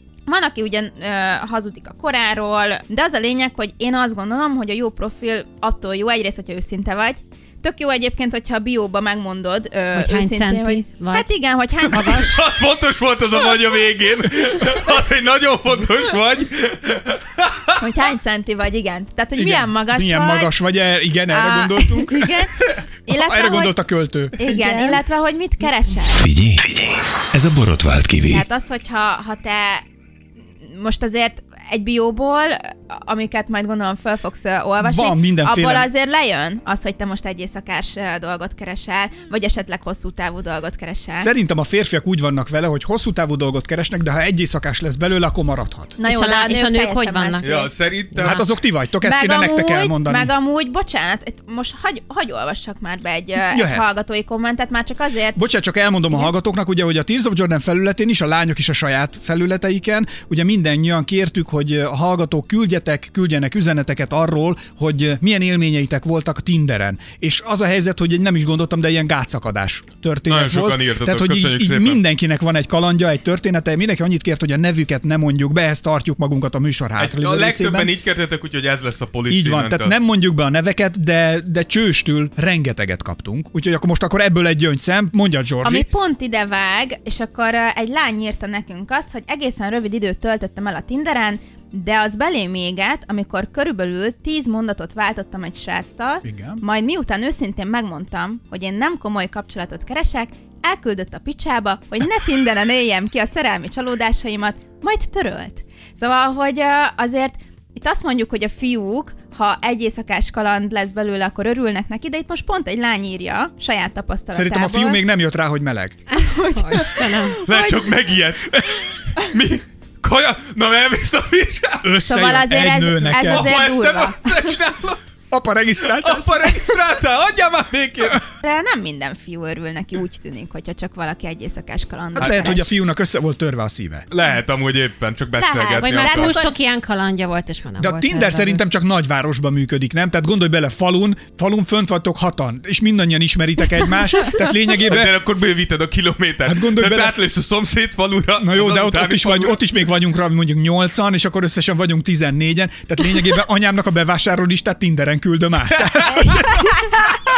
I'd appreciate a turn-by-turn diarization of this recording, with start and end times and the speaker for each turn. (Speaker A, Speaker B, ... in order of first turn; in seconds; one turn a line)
Speaker A: 0.2-12.4
Speaker B: 9.9-11.3
Speaker C: 11.9-17.8
Speaker A: 17.8-20.5
Speaker D: 19.4-22.5
Speaker A: 21.3-23.8
Speaker D: 23.1-24.5
Speaker A: 24.4-26.2
Speaker B: 24.4-25.0
Speaker E: 26.2-28.4
Speaker A: 28.3-29.8
Speaker A: 30.6-41.3
Speaker D: 34.8-35.9
Speaker D: 41.2-46.0
Speaker A: 46.0-47.7
Speaker B: 46.0-47.7
Speaker C: 47.4-48.4
Speaker D: 48.2-50.3
Speaker A: 49.0-55.4
Speaker D: 53.5-53.9
Speaker D: 55.4-77.9
Speaker C: 70.3-72.0
Speaker C: 77.0-79.9
Speaker D: 79.3-85.9
Speaker A: 85.6-115.0
Speaker D: 96.2-96.6
Speaker D: 114.3-116.0
Speaker B: 116.1-117.4
Speaker A: 116.2-117.9
Speaker C: 117.4-121.9
Speaker D: 121.8-123.6
Speaker A: 122.0-124.5
Speaker C: 123.2-125.0
Speaker D: 125.3-126.7
Speaker C: 125.8-128.3
Speaker A: 128.4-132.7
Speaker D: 132.2-134.1
Speaker C: 132.2-132.5
Speaker C: 134.1-136.3
Speaker A: 135.4-136.6
Speaker B: 135.8-138.6
Speaker D: 137.8-145.1
Speaker C: 144.8-149.6
Speaker D: 146.4-147.2
Speaker D: 148.4-157.1
Speaker C: 155.7-156.5
Speaker A: 156.1-157.1